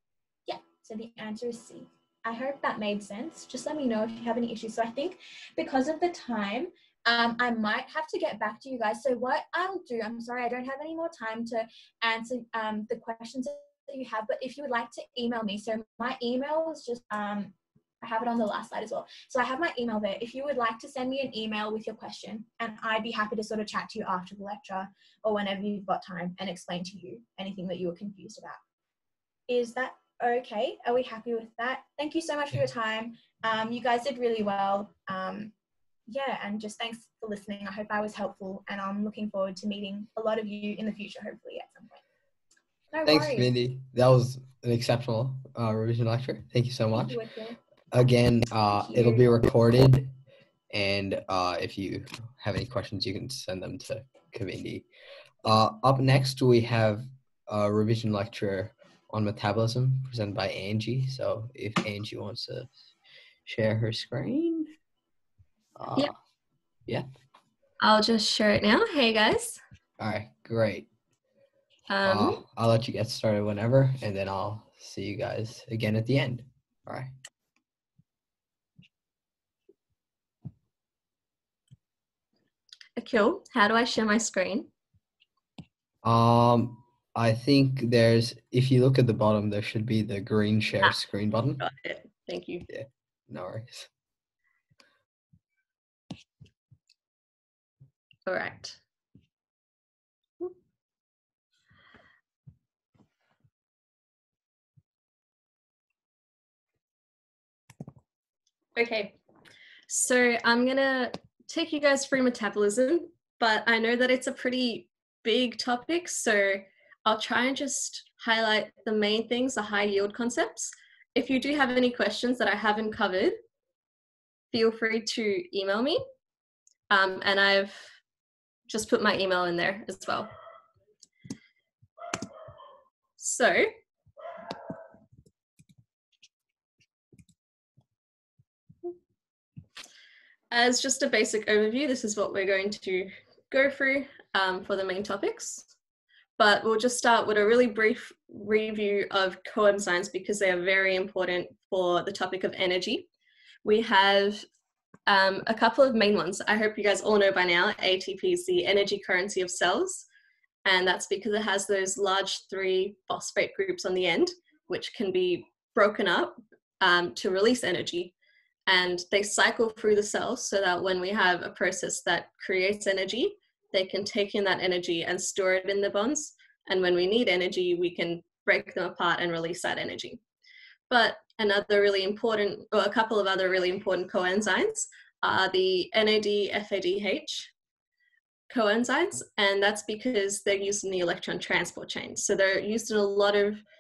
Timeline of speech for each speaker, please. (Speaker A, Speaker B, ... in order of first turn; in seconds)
Speaker A: 0.5-28.6, 29.5-35.5, 36.1-42.0, 42.9-43.5, 46.9-47.6, 48.7-49.3
Speaker B: 43.0-47.2, 47.9-50.1, 50.7-54.9, 55.4-62.8, 63.5-64.7, 65.8-66.1, 70.0-70.9, 72.0-77.1, 86.0-91.6, 92.7-93.9
Speaker C: 67.8-69.6, 71.9-72.4, 83.0-84.7, 91.6-92.7, 98.3-98.8, 108.7-109.2, 109.9-123.4, 124.5-126.0, 126.9-127.9, 128.7-130.3, 133.2-133.7, 140.5-145.7, 146.4-153.1, 153.6-154.4, 155.1-160.1, 160.7-168.1, 168.7-180.2, 180.9-187.5, 188.5-193.6